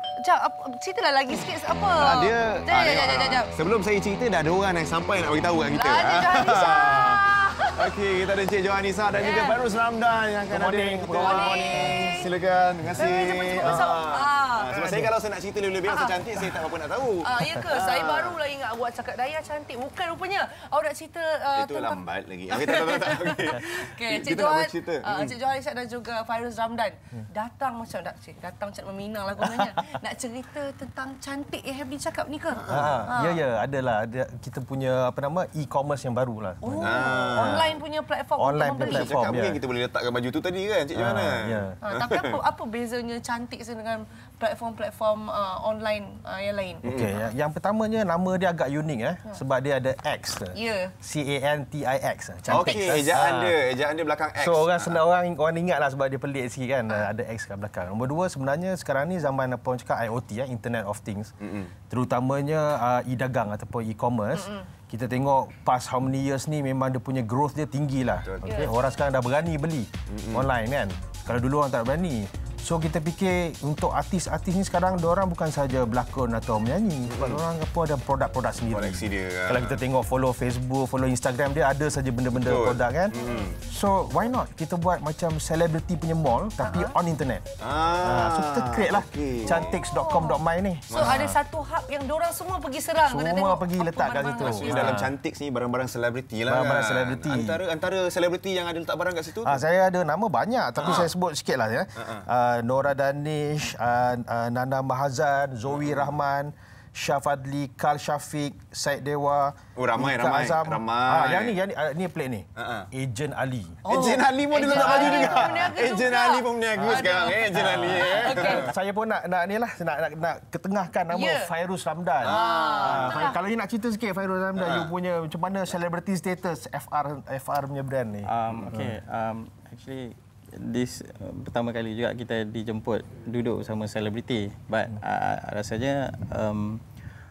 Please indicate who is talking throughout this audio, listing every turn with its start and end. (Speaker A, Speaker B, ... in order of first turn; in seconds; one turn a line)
Speaker A: 0.2-3.5
Speaker B: 1.9-7.2
Speaker A: 5.7-7.8
Speaker B: 7.8-18.4
Speaker A: 9.2-9.6
Speaker C: 10.5-11.4
Speaker A: 11.1-12.3
Speaker A: 12.9-14.7
Speaker C: 14.7-15.1
Speaker A: 15.9-16.1
Speaker A: 17.2-33.4
Speaker B: 21.5-25.3
Speaker B: 32.6-33.1
Speaker C: 32.7-37.6
Speaker A: 36.6-39.1
Speaker B: 36.8-37.8
Speaker C: 38.4-39.6
Speaker B: 38.8-42.4
Speaker C: 41.0-41.7
Speaker A: 41.8-46.8
Speaker C: 46.8-53.5
Speaker B: 46.8-47.1
Speaker A: 50.5-50.9
Speaker B: 52.5-55.0
Speaker A: 52.5-52.8
Speaker C: 54.4-61.3
Speaker B: 61.4-61.7
Speaker C: 61.9-83.1
Speaker A: 64.3-64.6
Speaker B: 68.2-68.7
Speaker A: 68.4-68.7
Speaker B: 70.1-70.4
Speaker B: 77.1-77.4
Speaker B: 78.7-79.8
Speaker B: 82.4-83.6
Speaker A: 83.1-83.5
Speaker C: 83.7-87.4
Speaker A: 86.6-86.9
Speaker B: 87.6-89.8
Speaker C: 88.0-91.2
Speaker A: 89.9-90.4
Speaker B: 90.9-91.3
Speaker A: 90.9-95.1
Speaker C: 93.0-95.0
Speaker B: 94.4-99.6
Speaker C: 96.5-97.6
Speaker C: 99.4-113.8
Speaker B: 100.8-101.1
Speaker B: 109.8-111.5
Speaker B: 112.6-112.9
Speaker A: 113.8-118.7
Speaker B: 113.8-118.7
Speaker C: 115.0-115.3
Speaker C: 117.7-128.9
Speaker A: 121.1-121.5
Speaker B: 122.2-123.3
Speaker A: 122.2-123.3
Speaker B: 124.5-124.9
Speaker D: 128.2-136.8